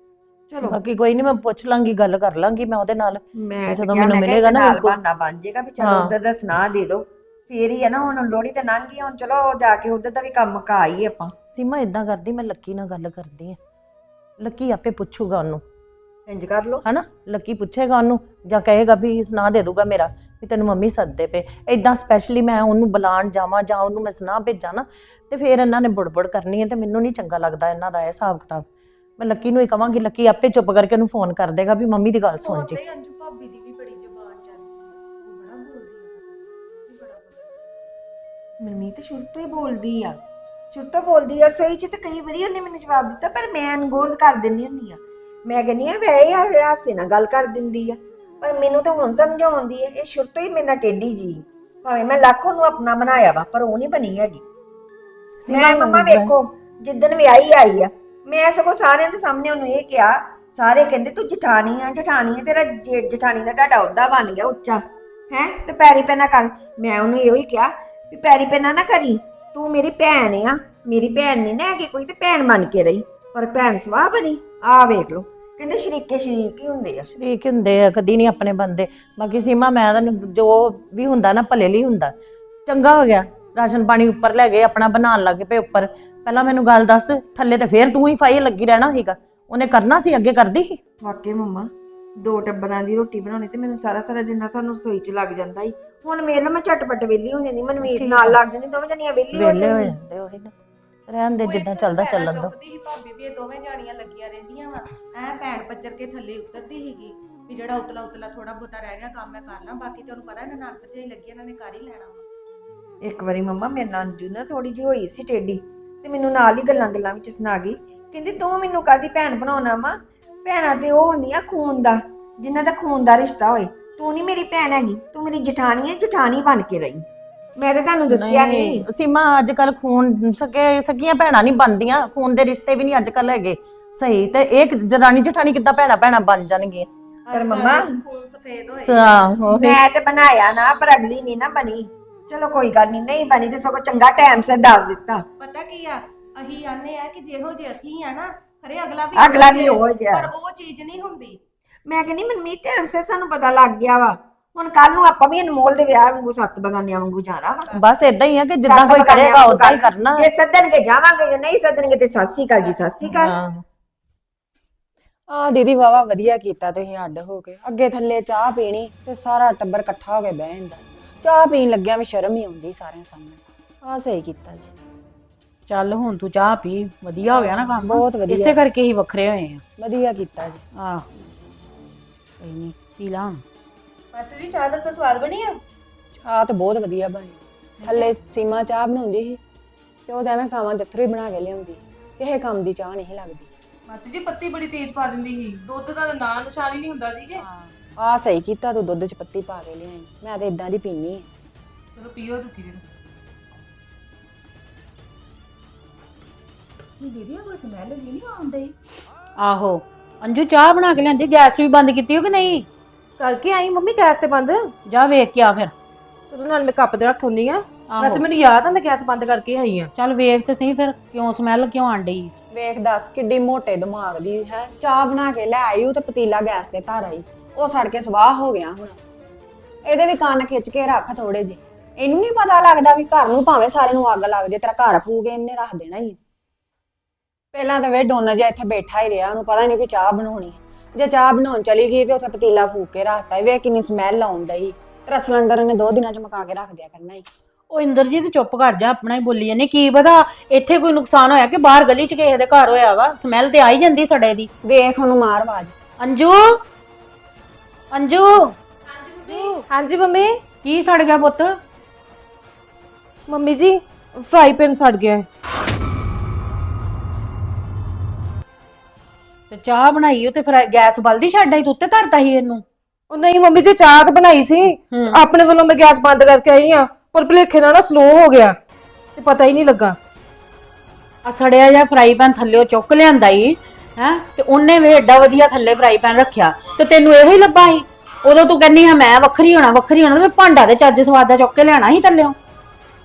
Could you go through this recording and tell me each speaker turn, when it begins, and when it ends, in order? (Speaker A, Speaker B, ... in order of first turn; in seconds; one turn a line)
Speaker A: 0.5-0.8
Speaker B: 0.6-5.0
Speaker A: 3.4-11.3
Speaker B: 5.8-6.1
Speaker B: 11.5-13.6
Speaker B: 14.4-15.6
Speaker A: 16.3-16.8
Speaker B: 16.8-28.7
Speaker B: 29.2-32.8
Speaker C: 32.4-37.6
Speaker A: 38.6-40.1
Speaker A: 40.7-54.4
Speaker B: 55.4-56.3
Speaker A: 55.5-77.1
Speaker B: 77.1-82.1
Speaker B: 82.7-90.8
Speaker A: 91.0-99.9
Speaker B: 97.8-98.4
Speaker B: 99.3-100.5
Speaker B: 101.1-102.5
Speaker C: 101.4-112.2
Speaker A: 113.0-127.0
Speaker A: 127.6-128.8
Speaker B: 128.1-136.9
Speaker C: 137.3-139.3
Speaker A: 137.3-138.0
Speaker B: 138.8-139.8
Speaker A: 139.5-145.2
Speaker C: 145.4-151.4
Speaker A: 149.1-150.3
Speaker A: 151.9-157.7
Speaker C: 157.7-158.4
Speaker B: 157.7-160.3
Speaker A: 158.6-163.3
Speaker B: 163.0-163.6
Speaker D: 165.3-174.7
Speaker E: 175.7-179.6
Speaker D: 177.3-178.6
Speaker D: 179.8-180.6
Speaker E: 180.7-181.1
Speaker E: 182.4-183.4
Speaker F: 184.1-185.5
Speaker D: 186.2-189.4
Speaker D: 190.1-193.5
Speaker F: 193.9-197.4
Speaker D: 197.3-201.3
Speaker F: 201.9-202.8
Speaker D: 207.0-208.6
Speaker C: 207.6-208.3
Speaker E: 209.4-212.7
Speaker F: 213.2-214.6
Speaker E: 214.9-215.7
Speaker F: 216.3-219.9
Speaker E: 217.9-218.2
Speaker E: 219.9-222.3
Speaker D: 222.5-229.0
Speaker D: 229.8-236.2
Speaker D: 237.5-247.2
Speaker E: 247.7-254.5
Speaker D: 254.6-255.7
Speaker E: 256.0-256.6
Speaker E: 257.9-258.6
Speaker F: 259.1-260.3
Speaker C: 259.3-259.6
Speaker E: 259.3-259.6
Speaker E: 260.6-261.6
Speaker F: 263.3-265.2
Speaker E: 269.5-272.6
Speaker F: 273.1-278.6
Speaker E: 274.9-275.2
Speaker F: 279.1-279.9
Speaker E: 281.2-292.4